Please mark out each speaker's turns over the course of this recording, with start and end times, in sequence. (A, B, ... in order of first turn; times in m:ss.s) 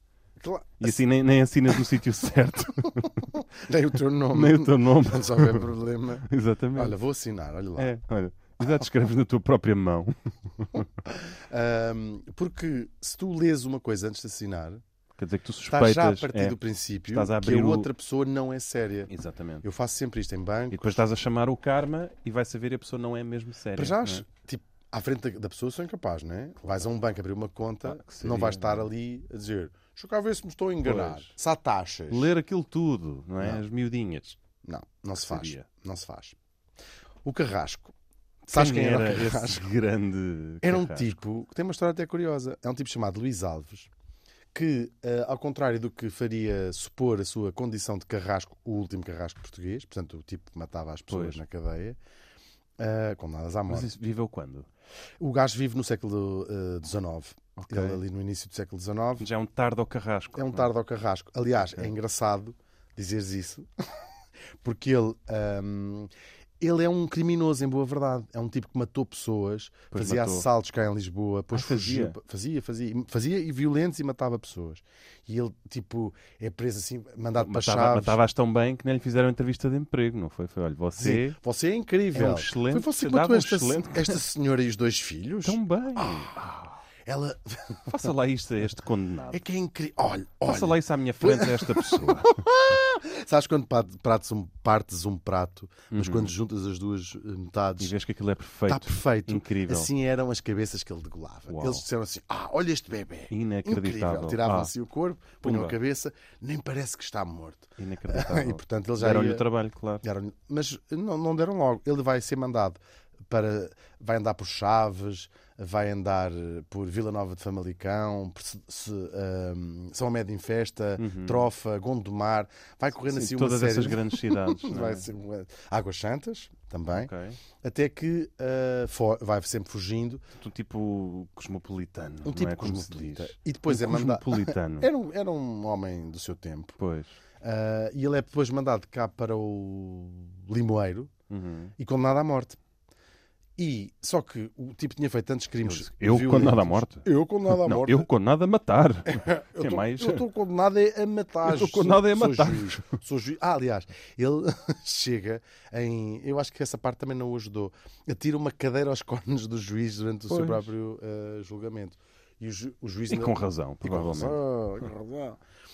0:00.4-0:01.0 A
0:00.8-0:03.4 B
0:02.9-0:07.9 A
0:04.3-0:07.0 B
0:07.8-0:10.9 B
0:11.1-0:14.8 A
0:15.2-0:16.6 B
0:15.7-0:19.1 A
0:17.1-0:17.9 B
0:19.1-0:19.6 B
0:19.6-0:21.0 A
0:20.7-0:24.2 B
0:23.8-0:32.3 A
0:27.8-0:28.9 B
0:30.8-0:31.3 B
0:32.1-0:34.4 B
0:33.4-0:33.6 A
0:34.6-0:36.4 A
0:35.1-0:35.7 B
0:37.2-0:37.9 A
0:38.5-0:39.7 A
0:38.5-0:41.2 B
0:40.6-0:43.9 A
0:44.5-0:52.0 A
0:51.1-0:51.4 B
0:52.8-0:53.9 A
0:53.7-0:54.7 B
0:55.2-0:59.3 A
0:57.6-0:58.0 B
0:59.2-1:00.7 B
1:00.4-1:03.7 A
1:04.6-1:06.1 A
1:06.6-1:18.2 A
1:09.9-1:10.5 B
1:11.5-1:12.2 B
1:17.4-1:21.4 B
1:21.0-1:28.0 A
1:22.1-1:24.2 B
1:25.4-1:26.5 B
1:27.9-1:29.4 B
1:29.3-1:38.0 A
1:30.5-1:32.4 B
1:35.9-1:36.3 B
1:37.8-1:39.9 B
1:38.7-1:49.5 A
1:41.5-1:41.8 B
1:43.3-1:44.7 B
1:45.4-1:45.8 B
1:47.8-1:50.0 B
1:50.0-2:10.2 A
2:01.0-2:01.5 B
2:03.0-2:05.1 B
2:06.9-2:07.4 B
2:10.4-2:14.9 B
2:12.2-2:16.8 A
2:16.8-2:17.2 B
2:17.4-2:21.1 A
2:21.3-2:21.7 B
2:21.8-2:22.6 A
2:23.6-2:28.1 A
2:25.6-2:30.2 B
2:29.1-2:45.4 A
2:31.4-2:33.0 B
2:40.3-2:40.7 B
2:43.1-2:44.4 B